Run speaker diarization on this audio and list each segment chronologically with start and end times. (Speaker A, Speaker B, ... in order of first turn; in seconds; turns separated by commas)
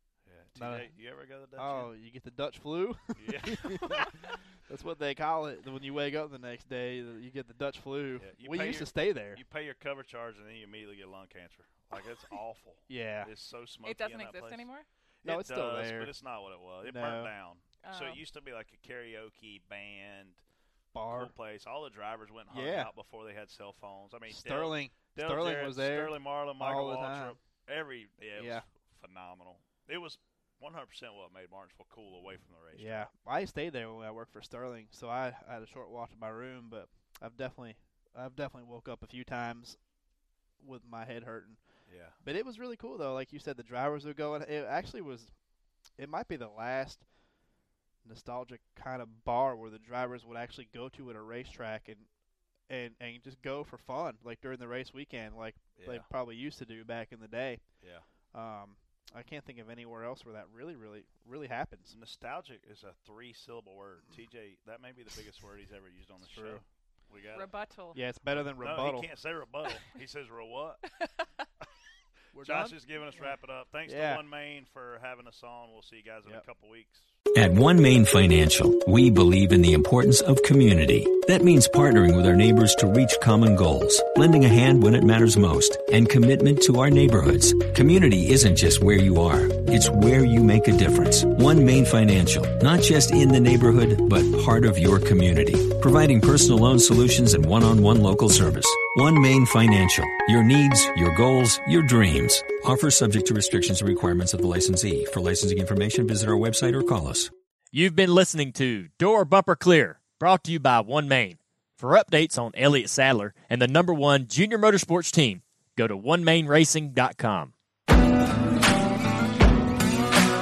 Speaker A: 0.2-1.9, Speaker B: 0.6-0.9, Speaker B: 1.6-9.4, Speaker A: 3.1-4.4, Speaker A: 8.2-14.7, Speaker B: 12.9-13.3, Speaker C: 13.8-14.8, Speaker A: 15.2-20.4, Speaker B: 15.2-16.1, Speaker B: 16.8-17.3, Speaker C: 17.8-18.2, Speaker B: 20.9-21.3, Speaker A: 21.0-33.1, Speaker B: 22.5-22.9, Speaker B: 24.3-27.4, Speaker B: 28.4-28.6, Speaker B: 32.7-39.8, Speaker B: 40.6-41.6, Speaker A: 41.9-42.2, Speaker B: 42.2-45.3, Speaker B: 46.0-47.0, Speaker B: 48.0-52.1, Speaker B: 52.7-57.6, Speaker A: 55.7-56.1, Speaker B: 58.3-61.9, Speaker A: 61.9-67.5, Speaker B: 66.2-66.6, Speaker C: 67.3-68.0, Speaker B: 67.9-69.1, Speaker A: 68.6-70.9, Speaker C: 71.0-71.4, Speaker B: 72.3-72.8, Speaker A: 72.4-77.1, Speaker B: 73.9-74.2, Speaker D: 77.3-107.3, Speaker E: 107.7-117.5